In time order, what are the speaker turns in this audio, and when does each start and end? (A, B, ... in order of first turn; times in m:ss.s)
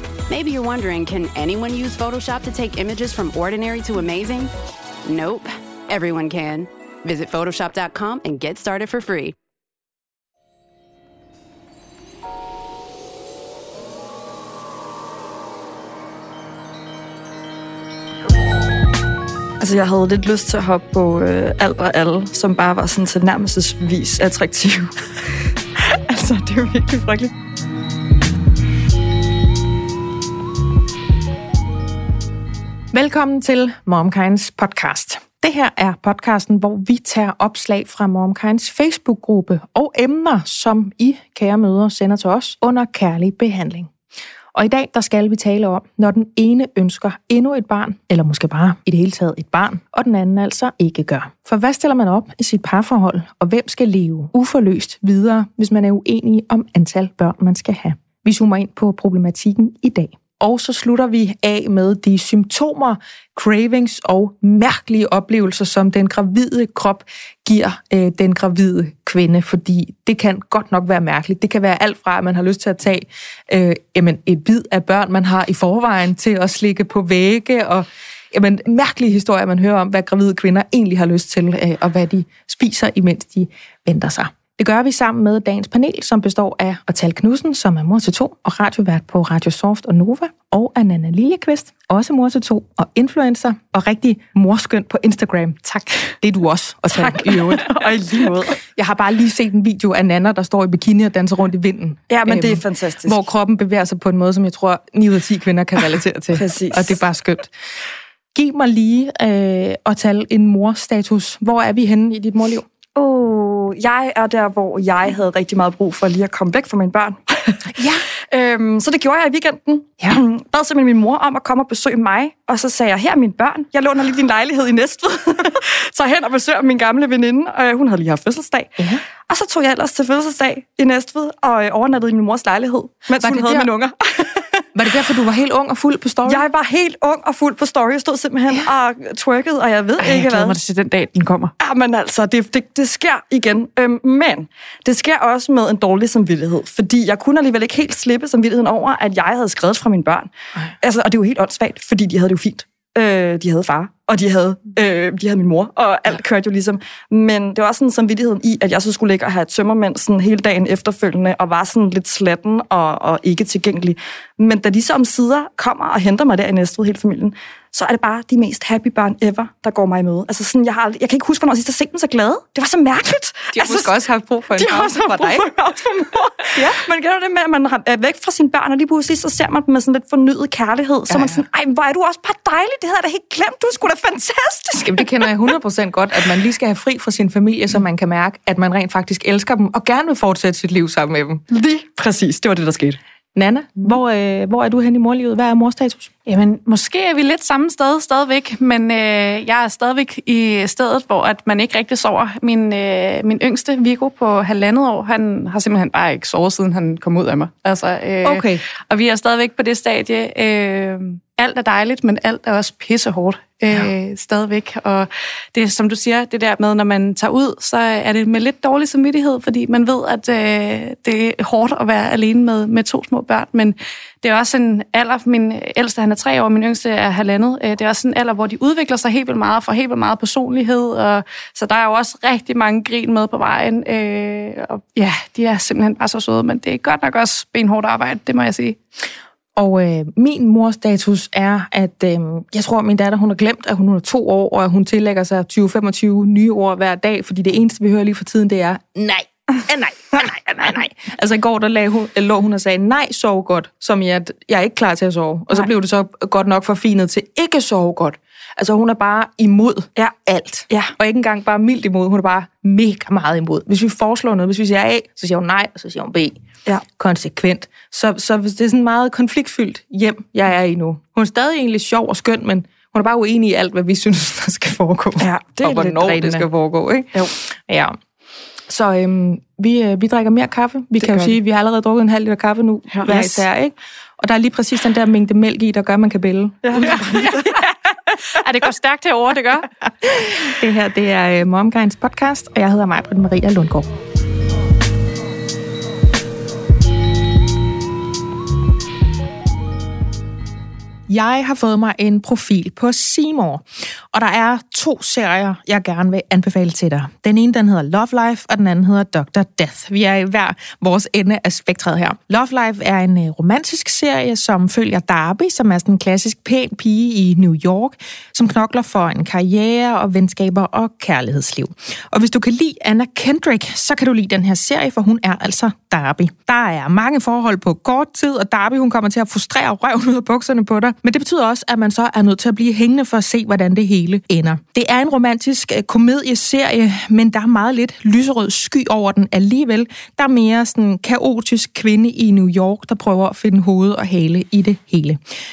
0:00.3-0:04.5 A
0:05.0-0:09.3 A
0:19.6-0:27.3 B
0:32.9-0:43.9 C
0:44.5-1:37.8 C
1:36.9-1:38.6 B
1:38.6-1:47.5 C
1:42.1-1:43.2 B
1:46.3-1:47.0 B
1:48.3-1:52.7 C
1:53.0-2:14.6 B
1:57.7-1:58.0 C
2:13.2-2:13.7 C
2:14.7-2:16.4 C
2:16.2-2:20.6 B
2:20.0-2:21.5 D
2:21.6-2:30.3 B
2:30.8-2:53.9 B
2:53.5-2:55.5 C
2:54.6-3:05.3 B
3:01.1-3:01.4 C
3:04.8-3:11.4 C
3:11.5-3:13.0 B
3:13.3-3:16.1 C
3:16.3-3:58.8 D
3:28.2-3:28.6 C
3:59.6-4:26.4 C
4:20.7-4:20.9 B
4:27.0-4:38.0 C
4:35.2-4:36.5 B
4:38.7-4:47.4 C
4:41.0-4:41.4 B
4:43.0-4:43.3 B
4:46.6-4:47.6 B
4:46.9-4:47.7 D
4:48.3-4:49.7 D
4:50.0-4:53.9 C
5:01.1-5:45.2 C